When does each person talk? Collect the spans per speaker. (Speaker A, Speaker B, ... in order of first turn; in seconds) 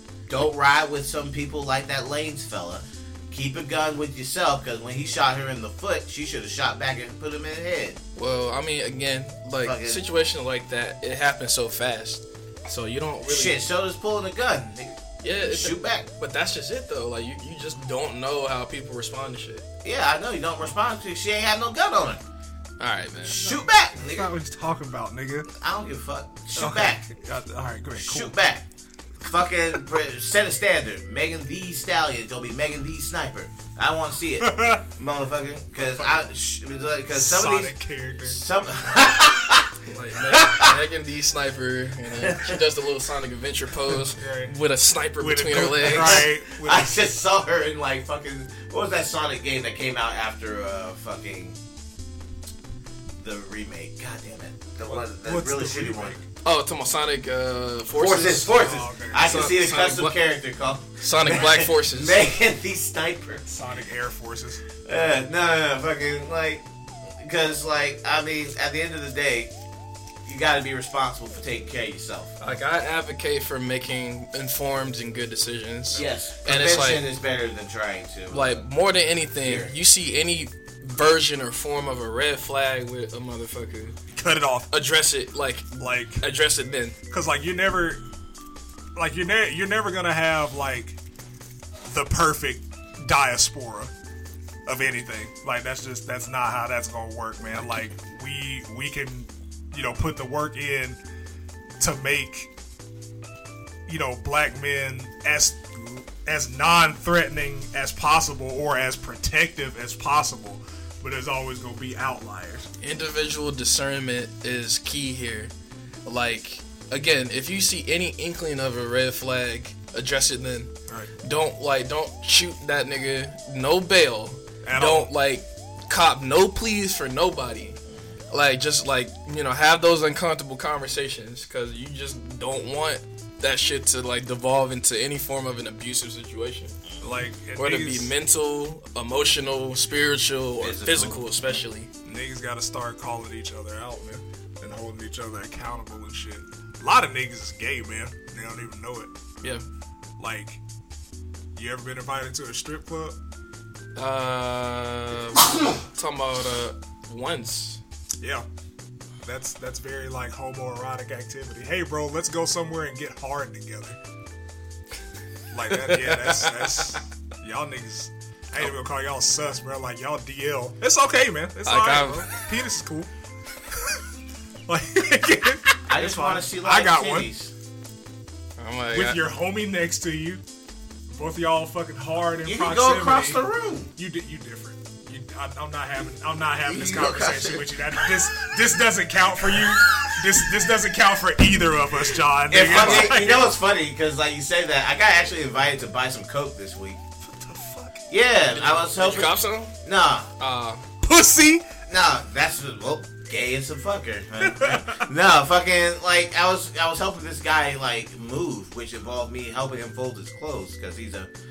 Speaker A: 0.3-8.0, 9.6-10.0, 13.2-16.1, 19.8-22.2, 23.2-24.3, 25.5-27.1, 27.9-28.7, 29.2-39.7, 40.3-40.8, 42.1-42.6, 45.8-51.5, 53.2-56.2, 57.9-63.6, 64.8-69.5, 70.2-72.3, 75.9-78.7, 79.4-79.7, 136.9-137.1, 140.6-141.3, 175.9-177.5, 182.4-183.9, 186.6-188.3, 189.5-190.5, 192.5-197.0, 198.1-200.3, 201.9-211.3
Speaker B: 8.2-13.6, 15.2-19.6, 22.8-23.4, 39.8-46.3, 56.4-60.2, 61.0-62.2, 72.4-77.0, 78.3-84.0, 84.7-87.0, 112.8-115.5, 116.0-120.7, 121.2-127.8, 128.3-136.8, 137.6-141.9, 153.9-157.8, 165.7-167.0, 171.6-172.4, 178.6-179.2, 192.6-193.2, 198.5-199.7, 200.4-200.8
Speaker C: 23.4-25.5, 26.6-28.4, 34.4-34.8, 35.8-36.3, 37.1-38.4, 43.9-44.5, 45.2-47.0, 54.8-56.3, 58.5-59.3, 63.5-64.6, 75.9-76.2, 84.1-84.7, 85.7-86.2, 87.1-88.0, 89.0-91.0, 91.9-93.9, 94.7-101.0, 101.8-102.5, 103.9-112.7, 120.9-121.1, 124.6-125.1, 137.0-138.1, 142.1-149.1, 150.2-150.6, 151.6-153.2, 158.2-158.4, 159.2-164.0, 165.5-173.1, 174.7-177.3, 178.9-180.4, 181.1-183.4, 183.9-193.5, 197.2-198.1, 201.0-201.7, 204.4-205.1